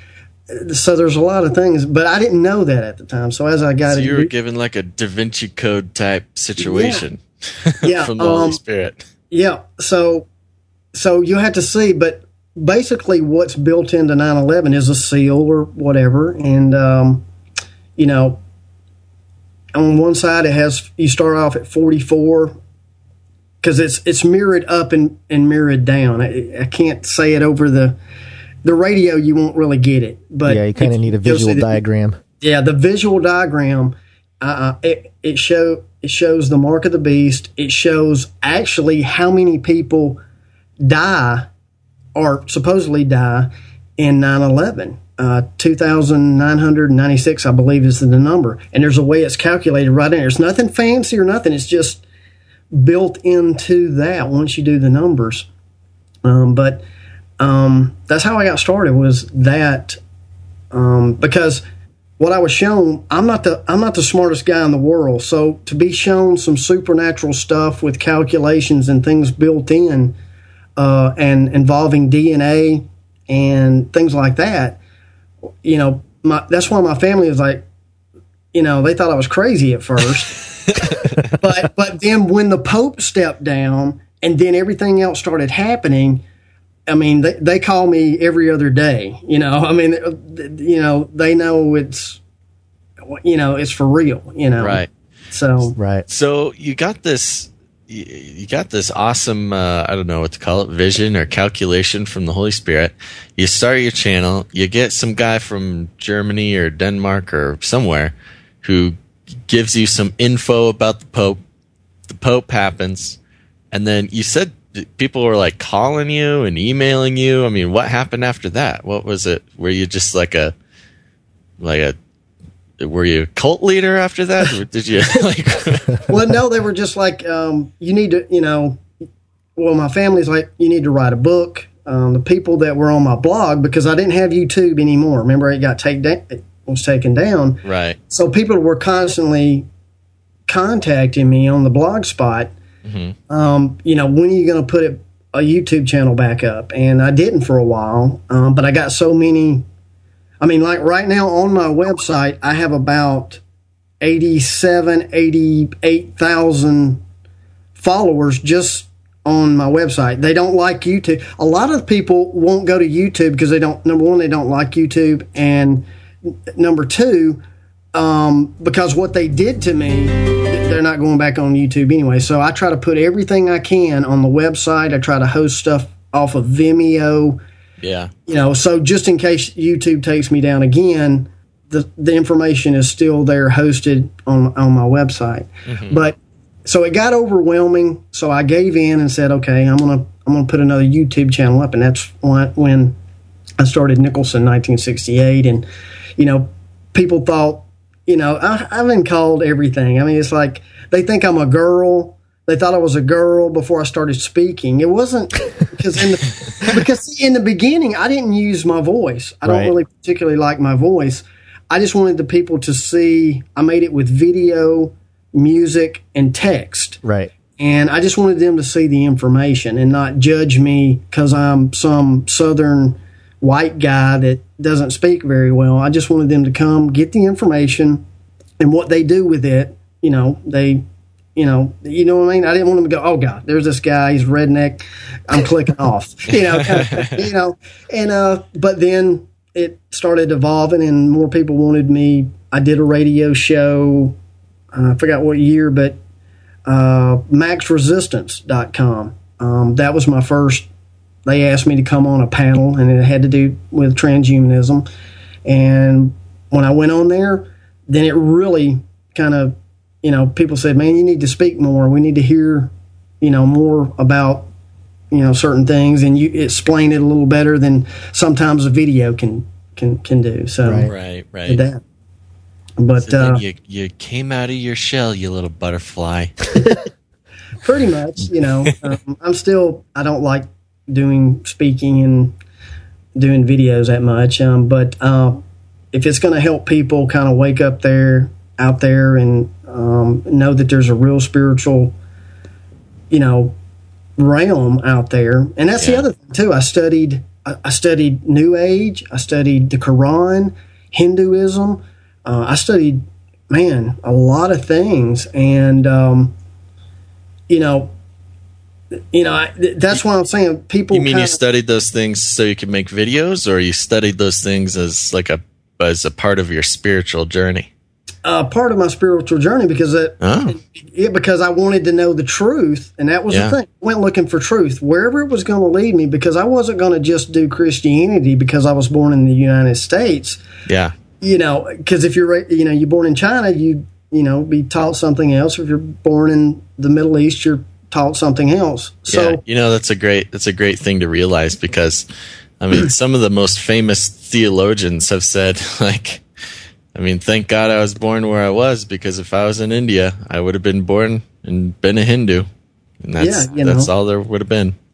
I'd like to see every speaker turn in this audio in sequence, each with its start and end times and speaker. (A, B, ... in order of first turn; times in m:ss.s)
0:00.5-0:04.3 A
0:03.8-0:09.0 B
0:06.6-0:07.0 A
0:07.8-0:08.6 A
0:09.3-0:10.3 A
0:10.9-0:17.2 A
0:18.0-0:18.4 A
0:19.7-0:22.5 A
0:23.6-0:28.0 A
0:28.6-0:31.8 A
0:30.4-0:32.2 C
0:32.4-0:40.2 A
0:40.8-0:41.5 A
0:42.1-0:52.0 A
0:52.7-0:55.5 A
0:56.2-0:56.8 A
0:57.4-1:00.0 A
1:00.7-1:01.6 A
1:02.2-1:10.1 A
1:10.8-1:14.8 A
1:15.6-1:17.6 A
1:18.5-1:26.2 A
1:20.7-1:21.3 B
1:26.9-1:32.2 A
1:33.0-1:35.8 A
1:34.6-1:34.9 B
1:35.8-1:36.0 C
1:36.1-1:51.4 B
1:52.1-1:53.2 B
1:53.7-2:00.5 B
2:01.6-2:02.0 B
2:02.8-2:06.0 B
2:06.1-2:08.8 A
2:09.6-2:19.7 A
2:17.6-2:18.0 B
2:20.5-2:22.5 A
2:22.8-2:23.2 B
2:23.3-2:29.6 A
2:30.4-2:33.4 A
2:34.0-2:37.0 A
2:37.8-2:45.8 A
2:46.5-2:47.4 A
2:47.9-2:57.4 A
2:57.8-2:58.1 B
2:58.3-3:13.0 A
3:05.7-3:06.0 B
3:13.6-3:15.6 A
3:16.2-3:37.0 A
3:29.4-3:29.7 C
3:37.0-3:37.3 C
3:37.6-3:48.0 A
3:48.6-3:50.8 A
3:51.4-4:04.2 A
3:56.3-3:57.2 B
4:04.7-4:06.0 A
4:06.6-4:10.7 A
4:11.2-4:14.8 A
4:15.4-4:24.5 A
4:25.1-4:30.9 A
4:30.6-4:30.9 C
4:30.8-4:31.6 B
4:31.5-4:31.8 A
4:32.8-4:33.4 A
4:33.0-4:36.4 B
4:36.5-4:36.8 A
4:37.6-4:42.3 A
4:43.2-4:45.4 A
4:45.9-4:51.9 A
4:53.1-4:53.6 A
4:54.2-5:06.3 A
4:55.8-4:56.0 B
5:07.5-5:07.9 A
5:09.1-5:11.4 A
5:10.9-5:17.7 B
5:18.2-5:30.4 A
5:20.2-5:20.6 B
5:23.3-5:23.6 B
5:30.7-5:30.9 B
5:31.2-5:39.4 A
5:39.1-5:42.1 B
5:42.6-5:46.2 B
5:46.9-5:52.5 B
5:53.0-5:54.8 B
5:53.2-5:53.9 A